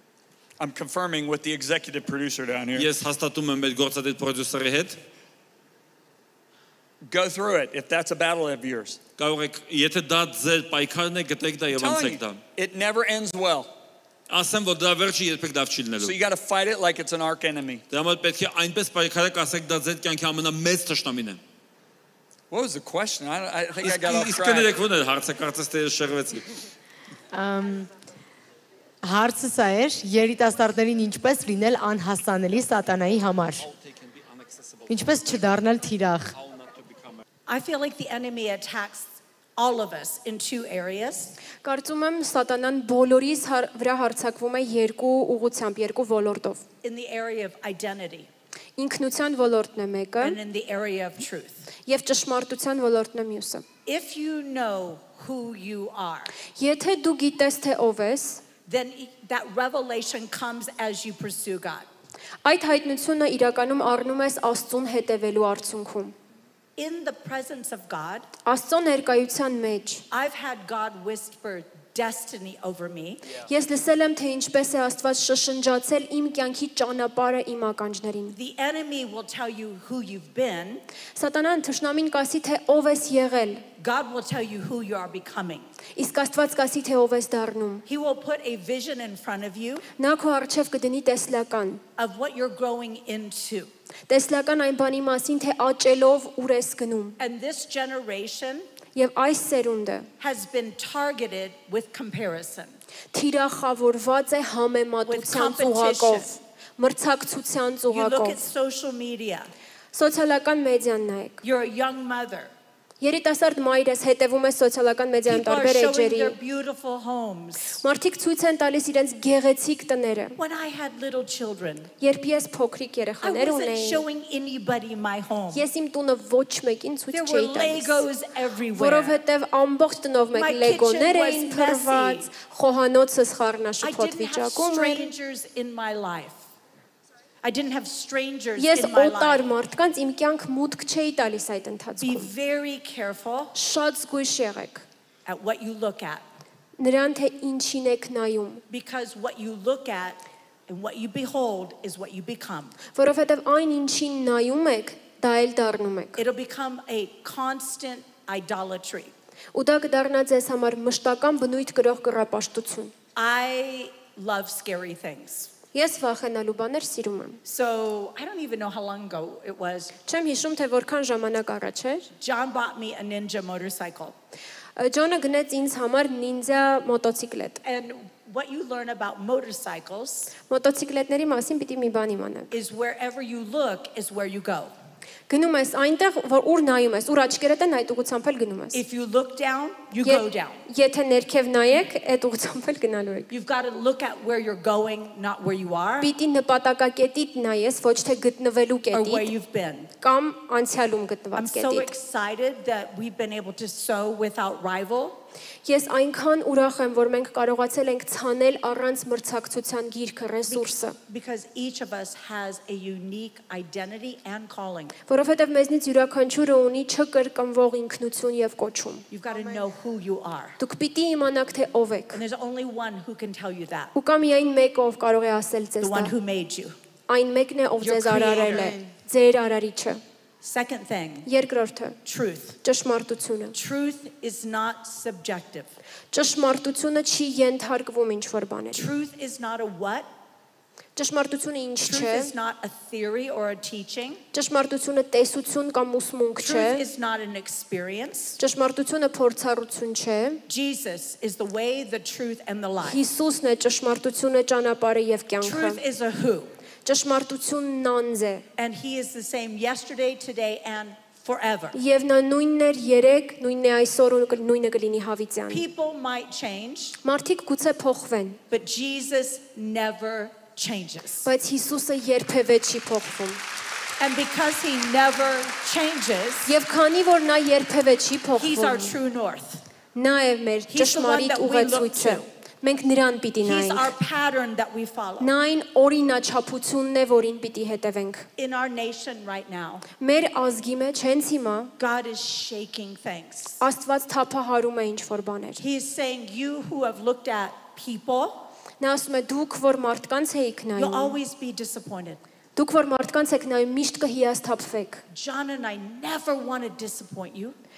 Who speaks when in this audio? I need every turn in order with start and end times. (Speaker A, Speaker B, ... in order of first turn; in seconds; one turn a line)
Speaker A: 0.6-2.9
Speaker B: 2.8-5.0
Speaker A: 7.1-9.0
Speaker B: 9.2-12.4
Speaker A: 11.7-13.7
Speaker B: 14.3-16.1
Speaker A: 16.0-17.8
Speaker B: 17.9-21.4
Speaker A: 22.5-24.7
Speaker B: 23.8-26.5
Speaker C: 27.3-27.9
Speaker C: 29.0-33.7
Speaker B: 33.6-34.9
Speaker C: 34.9-36.3
Speaker B: 36.4-37.2
Speaker D: 37.5-41.4
Speaker E: 41.6-46.6
Speaker D: 46.8-48.3
Speaker E: 48.8-50.4
Speaker D: 50.2-51.7
Speaker E: 51.9-53.6
Speaker D: 53.9-56.3
Speaker E: 56.6-58.4
Speaker D: 58.7-61.9
Speaker E: 62.4-66.2
Speaker D: 66.8-68.3
Speaker E: 68.5-70.0
Speaker D: 70.1-73.3
Speaker E: 73.3-78.4
Speaker D: 78.3-80.8
Speaker E: 81.2-83.6
Speaker D: 83.8-85.7
Speaker E: 86.0-87.8
Speaker D: 87.9-89.9
Speaker E: 90.0-91.8
Speaker D: 92.0-93.7
Speaker E: 94.1-97.2
Speaker D: 97.2-98.7
Speaker E: 99.0-100.1
Speaker D: 100.2-102.8
Speaker E: 103.1-108.4
Speaker D: 105.1-106.3
Speaker D: 107.9-109.5
Speaker E: 109.9-111.4
Speaker D: 111.4-112.5
Speaker E: 113.0-116.3
Speaker D: 115.3-117.8
Speaker E: 117.8-120.4
Speaker D: 120.4-121.9
Speaker E: 122.0-124.0
Speaker D: 123.2-125.7
Speaker E: 125.5-128.1
Speaker D: 127.1-129.2
Speaker E: 128.8-135.1
Speaker D: 130.3-132.3
Speaker D: 133.8-136.4
Speaker D: 137.4-139.4
Speaker E: 138.6-142.3
Speaker D: 142.0-143.6
Speaker E: 143.6-144.8
Speaker D: 145.3-146.2
Speaker E: 146.8-148.6
Speaker D: 148.7-152.8
Speaker E: 152.9-156.2
Speaker D: 156.2-159.1
Speaker E: 159.5-162.9
Speaker D: 163.2-165.5
Speaker E: 165.7-167.4
Speaker D: 167.4-170.0
Speaker E: 170.1-172.1
Speaker D: 172.2-174.2
Speaker E: 174.8-177.6
Speaker D: 177.6-180.3
Speaker E: 180.5-182.5
Speaker D: 182.5-184.7
Speaker E: 185.3-188.8
Speaker D: 188.7-190.6
Speaker E: 190.1-193.3
Speaker D: 193.3-196.1
Speaker E: 196.0-199.3
Speaker D: 198.9-199.9
Speaker E: 200.0-201.9
Speaker D: 201.4-205.2
Speaker E: 205.7-211.0
Speaker D: 210.5-215.0
Speaker E: 215.1-219.0
Speaker D: 219.1-220.6
Speaker E: 220.6-222.2
Speaker D: 222.1-223.9
Speaker E: 223.9-226.1
Speaker D: 225.8-226.8
Speaker E: 227.1-230.0
Speaker D: 227.8-228.8
Speaker D: 230.4-231.3
Speaker E: 231.3-232.0
Speaker D: 232.1-232.6
Speaker E: 232.6-233.6
Speaker D: 233.5-235.7
Speaker E: 236.1-238.9
Speaker D: 238.7-240.1
Speaker E: 241.0-242.3
Speaker D: 241.8-244.2
Speaker E: 244.3-246.8
Speaker D: 246.4-248.4
Speaker E: 248.4-250.4
Speaker D: 250.5-253.0
Speaker E: 252.8-255.8
Speaker D: 255.4-256.5
Speaker E: 256.9-258.4
Speaker D: 258.6-261.8
Speaker E: 261.7-265.6
Speaker D: 265.5-267.0
Speaker E: 267.0-268.4
Speaker D: 268.5-271.3
Speaker E: 271.3-273.4
Speaker D: 274.0-276.5
Speaker E: 276.5-279.0
Speaker D: 278.4-279.6
Speaker E: 279.9-283.9
Speaker D: 280.7-282.3
Speaker D: 283.4-285.3
Speaker E: 285.2-288.3
Speaker D: 288.4-289.9
Speaker E: 290.0-291.7
Speaker D: 291.8-293.6
Speaker E: 293.6-295.6
Speaker D: 295.6-298.5
Speaker E: 298.8-301.2
Speaker D: 300.8-302.2
Speaker E: 302.6-305.0
Speaker D: 305.1-307.6